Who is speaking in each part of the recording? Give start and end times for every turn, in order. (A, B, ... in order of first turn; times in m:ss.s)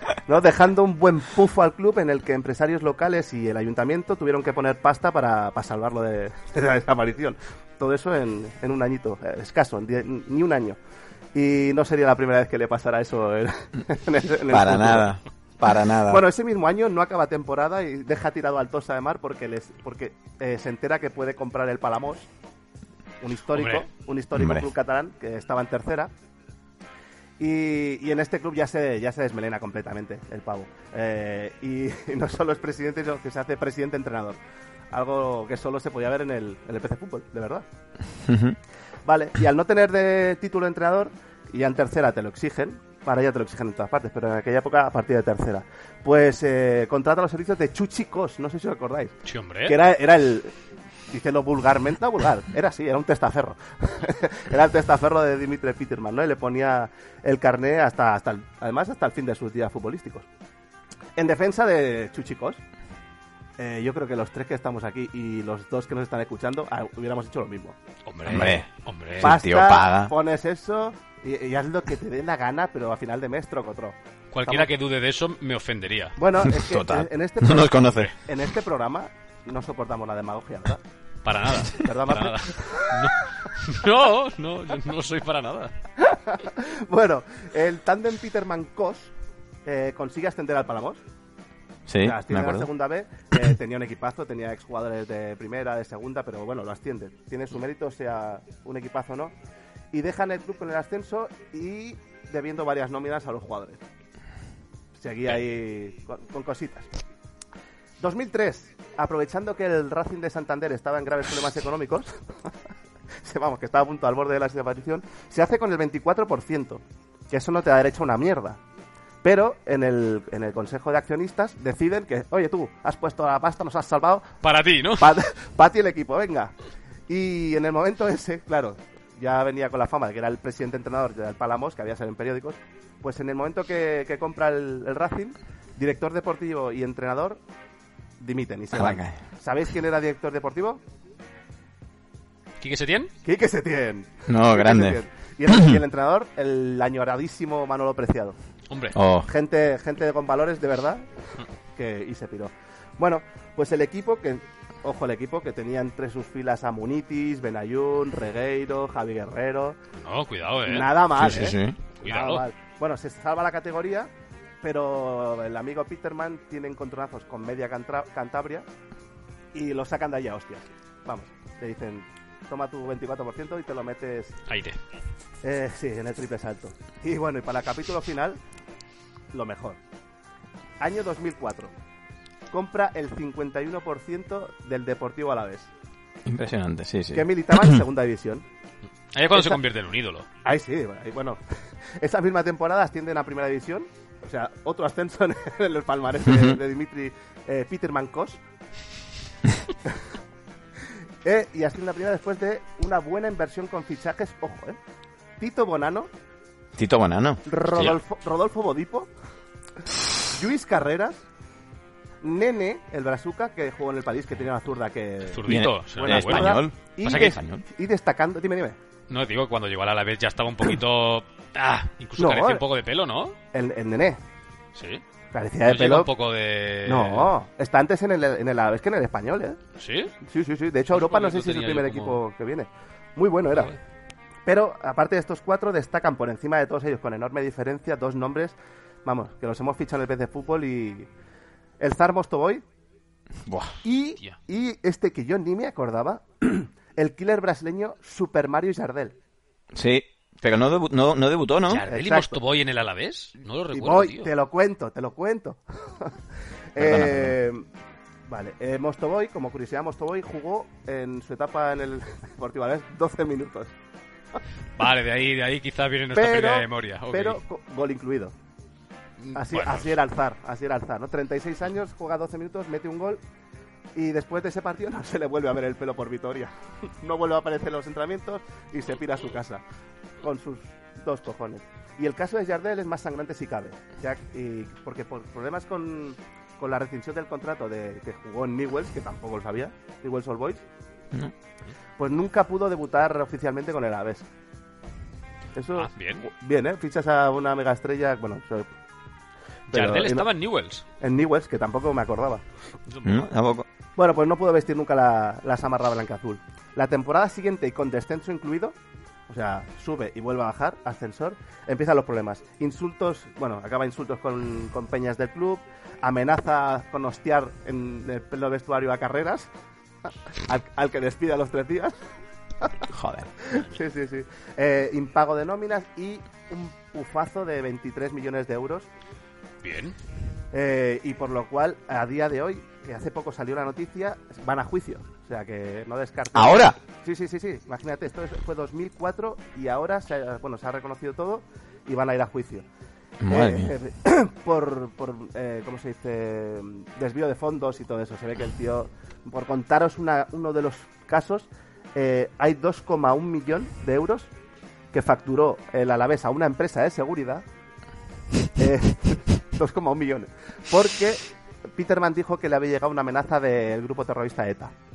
0:00.3-0:10.8 A
0:11.3-0:15.1 A
0:14.5-0:16.2 B
0:16.1-0:22.3 A
0:23.2-0:26.1 A
0:23.6-0:23.9 C
0:24.4-0:24.7 B
0:27.4-0:34.4 A
0:34.9-0:37.6 A
0:38.2-0:38.6 B
0:39.1-0:49.1 A
0:49.3-0:49.8 C
0:49.7-0:50.6 A
0:51.1-1:00.3 A
1:01.2-1:02.6 A
1:03.6-1:07.8 A
1:08.1-1:09.3 C
1:08.3-1:10.1 B
1:09.2-1:14.7 A
1:14.3-1:16.2 C
1:16.2-1:20.8 A
1:16.4-1:18.1 B
1:21.2-1:25.7 C
1:21.7-1:23.1 A
1:26.0-1:29.1 A
1:29.7-1:31.0 A
1:31.9-1:32.7 B
1:32.0-1:39.3 A
1:39.9-1:43.8 A
1:45.0-1:46.9 A
1:48.0-1:52.2 A
1:53.2-1:58.6 A
1:59.2-2:04.3 A
2:04.4-2:05.2 C
2:05.0-2:06.5 A
2:07.1-2:17.4 A
2:18.2-2:20.8 A
2:18.7-2:19.2 B
2:22.6-2:23.1 C
2:23.2-2:28.4 A
2:24.3-2:25.8 B
2:28.7-2:29.0 C
2:28.9-2:29.3 B
2:29.2-2:31.1 A
2:31.8-2:39.8 A
2:40.0-2:41.0 C
2:40.6-2:44.1 A
2:41.2-2:41.8 B
2:42.0-2:42.4 C
2:44.6-2:48.7 A
2:49.5-2:54.4 A
2:54.5-2:54.8 C
2:55.4-2:58.4 A
2:59.3-2:59.8 A
3:00.8-3:01.7 A
3:02.5-3:05.7 A
3:06.2-3:07.8 B
3:07.1-3:08.4 A
3:09.1-3:10.3 C
3:09.3-3:09.6 A
3:10.4-3:11.4 A
3:12.0-3:18.4 A
3:16.3-3:16.6 B
3:21.2-3:24.8 A
3:25.4-3:26.1 A
3:26.8-3:28.0 B
3:27.4-3:29.1 A
3:30.3-3:31.2 A
3:32.2-3:38.8 A
3:35.3-3:37.3 C
3:35.4-3:37.6 B
3:39.1-3:43.4 C
3:42.2-3:42.6 A
3:43.5-3:44.2 A
3:44.8-3:45.0 C
3:45.3-3:46.1 A
3:45.7-3:47.3 C
3:46.9-3:49.6 A
3:49.8-3:50.1 C
3:50.2-3:53.8 A
3:50.9-3:52.2 C
3:54.5-4:01.1 A
4:01.8-4:02.6 A
4:03.4-4:03.8 B
4:03.8-4:09.2 A
4:09.7-4:11.8 B
4:11.7-4:14.3 C
4:11.9-4:12.4 A
4:13.7-4:16.2 A
4:16.8-4:17.7 A
4:16.8-4:17.4 B
4:18.3-4:23.7 A
4:24.8-4:27.4 C
4:26.1-4:28.3 A
4:29.2-4:30.0 C
4:29.3-4:33.2 A
4:34.0-4:39.6 A
4:40.2-4:50.6 A
4:52.0-4:54.3 A
4:55.6-4:58.7 A
4:55.8-4:56.3 C
4:59.7-5:00.3 A
4:59.7-5:00.8 C
5:01.0-5:02.4 A
5:02.9-5:03.2 C
5:03.0-5:03.7 B
5:04.0-5:08.8 A
5:09.3-5:19.5 A
5:20.3-5:22.0 A
5:22.9-5:23.3 B
5:23.4-5:28.9 A
5:29.6-5:30.0 C
5:30.5-5:42.7 A
5:36.3-5:36.8 B
5:43.2-5:43.7 B
5:43.3-5:54.3 A
5:54.9-5:57.4 A
5:58.6-6:04.7 A